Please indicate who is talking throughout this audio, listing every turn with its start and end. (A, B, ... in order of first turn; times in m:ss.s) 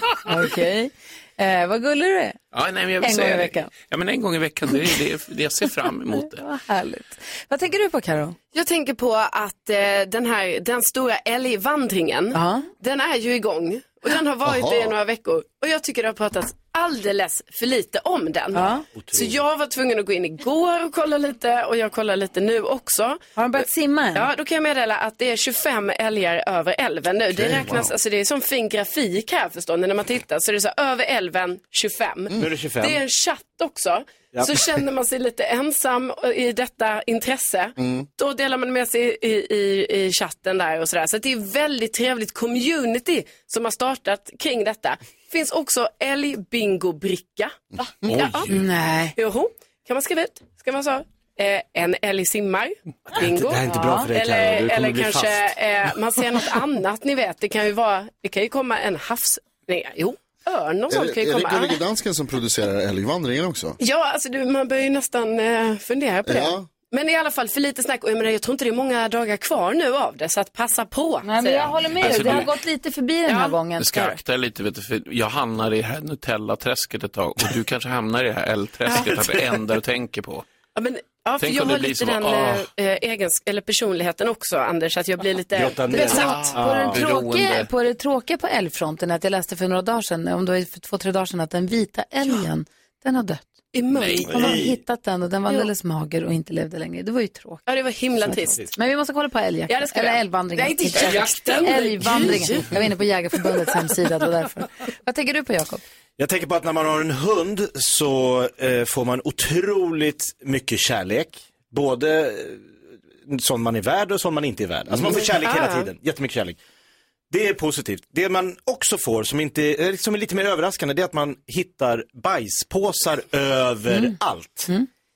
0:00.2-0:02.4 A
0:02.5-0:06.4 B
0:03.0-0:03.7 A
0:06.2-0:08.4 A
0:08.5-0:23.2 C
0:12.3-0:12.7 A
0:14.4-0:15.0 D
0:18.5-0:18.8 A
0:19.0-0:19.4 E
0:23.4-0:24.3 A
0:24.1-0:48.6 C
0:27.3-0:27.9 D
0:32.4-0:33.0 E
0:34.3-0:34.8 E
0:37.8-0:38.1 D
0:48.5-0:49.2 A
0:49.2-1:01.8 C
0:53.1-0:55.6 E
0:53.7-0:54.1 A
1:00.9-1:03.8 D
1:03.8-1:12.5 C
1:06.3-1:06.7 D
1:11.2-1:14.2 A
1:12.0-1:12.5 B
1:13.3-1:13.6 C
1:13.8-1:20.4 B
1:19.1-1:19.4 E
1:20.8-1:26.5 C
1:21.4-1:22.7 B
1:25.5-1:27.0 E
1:25.9-1:33.5 A
1:26.9-1:27.7 B
1:33.7-1:34.6 C
1:34.0-1:34.4 B
1:34.3-1:37.6 A
1:34.3-1:34.8 E
1:37.7-1:38.7 C
1:38.2-1:38.7 E
1:38.3-1:45.8 A
1:39.7-1:42.8 C
1:41.1-1:41.8 B
1:46.2-1:52.7 E
1:53.3-1:56.6 E
1:55.1-1:55.9 C
1:57.3-2:04.7 E